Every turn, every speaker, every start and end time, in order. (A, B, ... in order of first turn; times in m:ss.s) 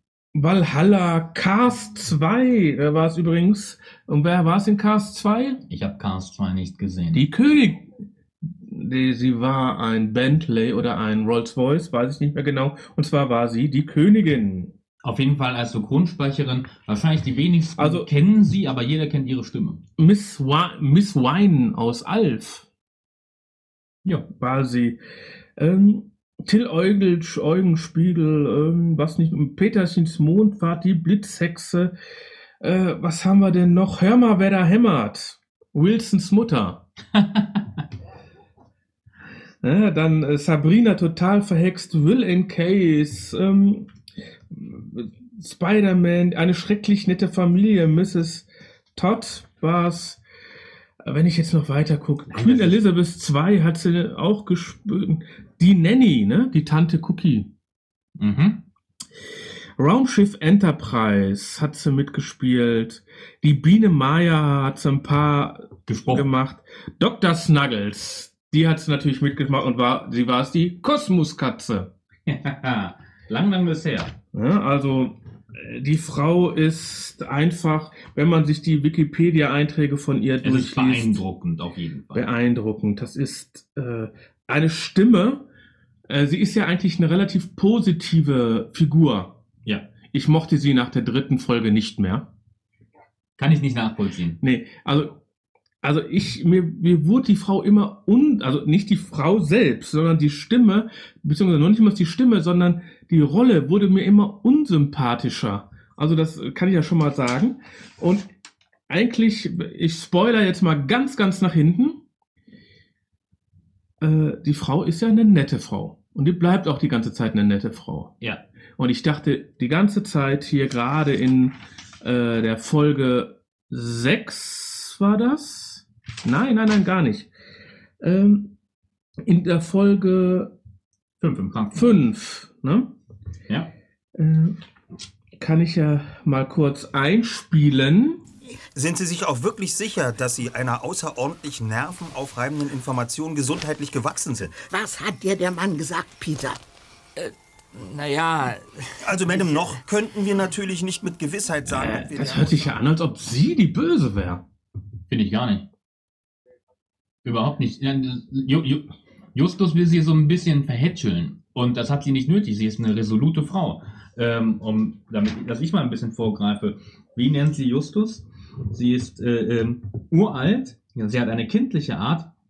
0:00.3-0:05.6 A
0:05.7-0:07.2 B
0:07.1-0:07.9 A
0:08.6-0:14.7 A
0:15.0-0:19.8 B
0:17.8-0:18.1 A
0:20.0-0:22.6 A
0:24.3-0:25.0 A
0:25.6-0:31.9 A
0:32.6-0:36.8 A
0:37.1-0:37.6 B
0:39.6-0:43.9 A
0:44.5-0:50.2 A
0:51.0-0:57.5 A
0:52.3-0:52.8 B
0:58.2-0:58.6 B
0:59.8-1:11.9 A
1:05.9-1:06.2 B
1:12.2-1:14.1 B
1:14.3-1:21.2 A
1:20.4-1:22.3 B
1:22.1-1:25.4 A
1:26.1-1:29.4 A
1:30.1-1:32.3 A
1:33.4-1:34.4 B
1:34.4-1:35.2 A
1:35.8-1:48.3 A
1:48.9-1:52.0 A
1:54.0-1:58.1 A
1:58.8-2:07.3 A
2:08.0-2:08.5 A
2:09.2-2:10.5 A
2:11.2-2:12.0 B
2:11.7-2:12.9 A
2:14.2-2:14.6 A
2:15.4-2:18.2 A
2:18.7-2:24.5 C
2:24.6-2:26.6 D
2:27.2-2:29.6 E
2:29.0-2:32.8 C
2:31.8-2:34.4 A
2:35.1-2:35.7 B
2:37.2-2:52.3 B